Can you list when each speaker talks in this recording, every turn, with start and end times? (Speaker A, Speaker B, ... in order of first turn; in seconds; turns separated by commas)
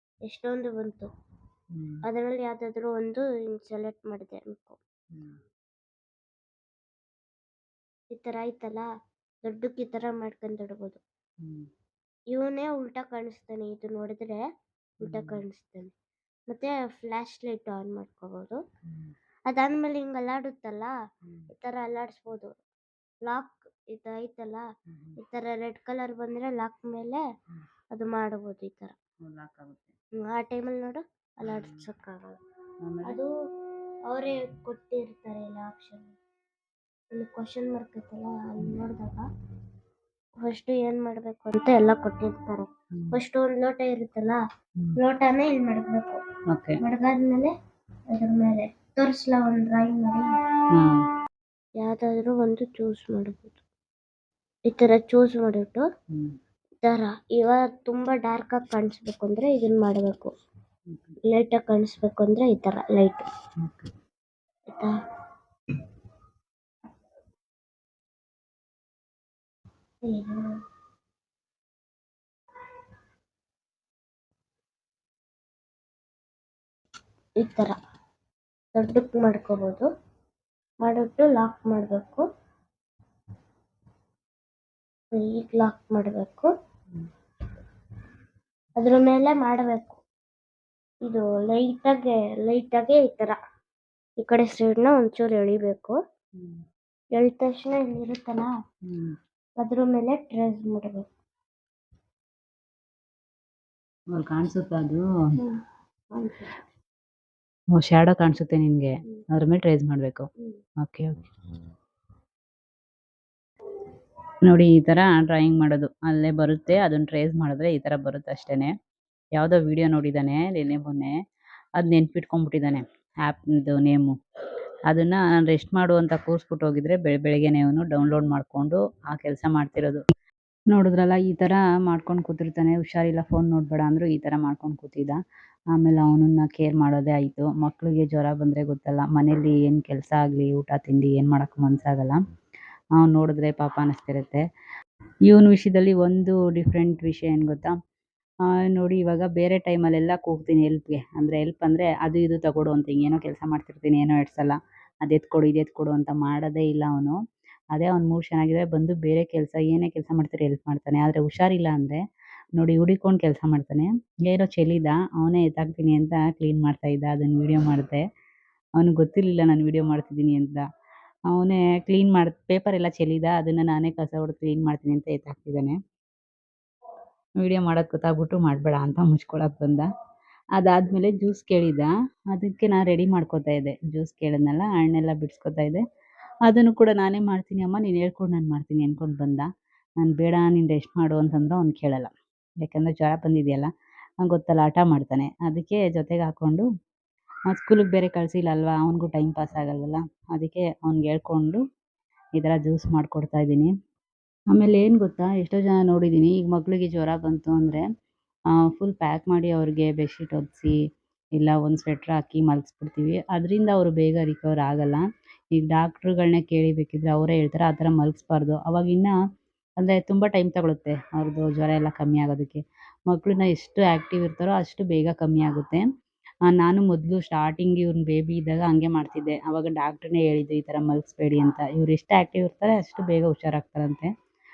Speaker A: 0.2-1.1, Speaker B: 1.7-2.0, Speaker A: 2.0-4.8, Speaker B: 5.1-5.4, Speaker A: 8.1-8.9, Speaker A: 9.4-11.0, Speaker B: 11.4-11.7, Speaker A: 12.3-14.4, Speaker A: 15.0-15.9, Speaker B: 15.0-15.4, Speaker A: 16.5-18.6, Speaker A: 19.5-20.9, Speaker A: 21.5-22.6, Speaker A: 23.2-24.6, Speaker B: 24.9-25.2, Speaker A: 25.2-27.2, Speaker A: 27.9-28.9, Speaker B: 29.2-29.9, Speaker A: 30.2-32.4, Speaker B: 31.5-31.8, Speaker B: 32.8-33.2, Speaker A: 33.0-33.3, Speaker A: 34.1-36.1, Speaker A: 37.1-39.3, Speaker A: 40.4-44.4, Speaker A: 45.0-46.2, Speaker B: 46.5-46.8, Speaker A: 46.8-47.5, Speaker A: 48.1-50.3, Speaker B: 50.7-51.0, Speaker A: 51.8-53.6, Speaker A: 54.6-55.9, Speaker B: 56.1-56.4, Speaker A: 56.8-60.3, Speaker B: 60.9-61.1, Speaker A: 61.3-63.3, Speaker B: 63.6-63.9, Speaker A: 64.7-64.9, Speaker A: 70.0-70.5, Speaker A: 77.4-77.8, Speaker A: 78.7-79.9, Speaker A: 80.8-82.2, Speaker A: 85.1-86.5, Speaker A: 88.8-90.0, Speaker A: 91.0-93.4, Speaker A: 94.2-96.0, Speaker B: 96.4-96.6, Speaker A: 97.1-98.5, Speaker B: 98.9-99.1, Speaker A: 99.6-101.1, Speaker B: 104.1-105.0, Speaker A: 105.4-106.5, Speaker B: 107.7-110.3, Speaker B: 110.8-111.3, Speaker B: 114.4-118.7, Speaker B: 119.3-121.2, Speaker B: 121.8-124.1, Speaker B: 124.9-130.0, Speaker B: 130.7-135.2, Speaker B: 135.7-142.2, Speaker B: 143.0-144.4, Speaker B: 145.2-147.7, Speaker B: 148.5-157.2, Speaker B: 157.7-162.0, Speaker B: 162.5-168.0, Speaker B: 168.8-170.6, Speaker B: 171.3-175.8, Speaker B: 177.4-179.9, Speaker B: 180.6-185.8, Speaker B: 186.4-189.5, Speaker B: 190.0-193.7, Speaker B: 194.2-196.6, Speaker B: 197.5-201.6, Speaker B: 202.3-203.7, Speaker B: 204.5-207.8, Speaker B: 208.5-210.8, Speaker B: 211.3-219.1, Speaker B: 219.8-225.8, Speaker B: 226.4-234.1